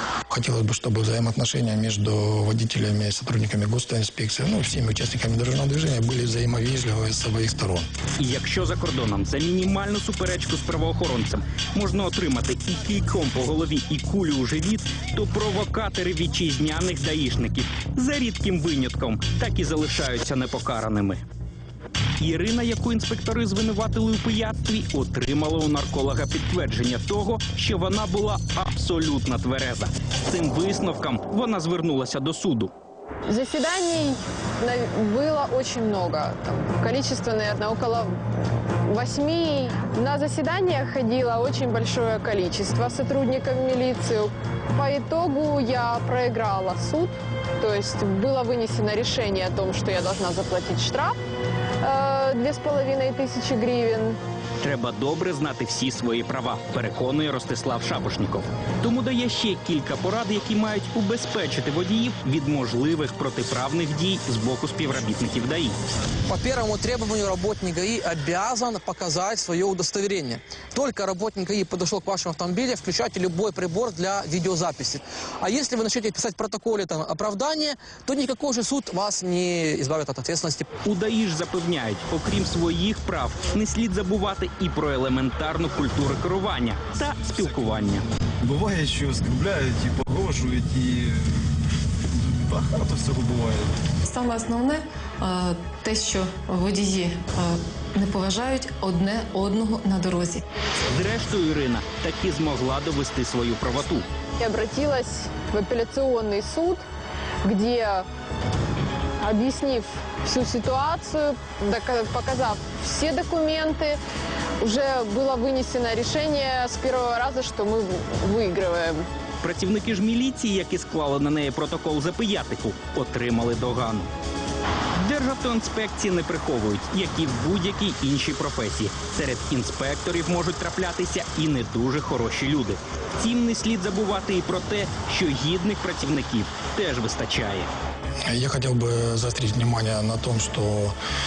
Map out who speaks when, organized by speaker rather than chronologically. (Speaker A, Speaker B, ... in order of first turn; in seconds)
Speaker A: 0.3-7.9, 138.3-140.9
Speaker B: 8.2-21.2, 22.2-32.7, 54.6-65.8, 80.8-88.0, 100.9-104.1, 119.4-124.1, 125.0-137.7
Speaker C: 33.3-38.1, 38.9-51.1, 51.8-54.2, 104.4-106.8, 107.4-108.0, 109.2-114.0, 114.6-119.0
Speaker D: 66.3-80.7
Speaker E: 88.5-91.1, 92.2-93.6
Speaker F: 94.1-100.4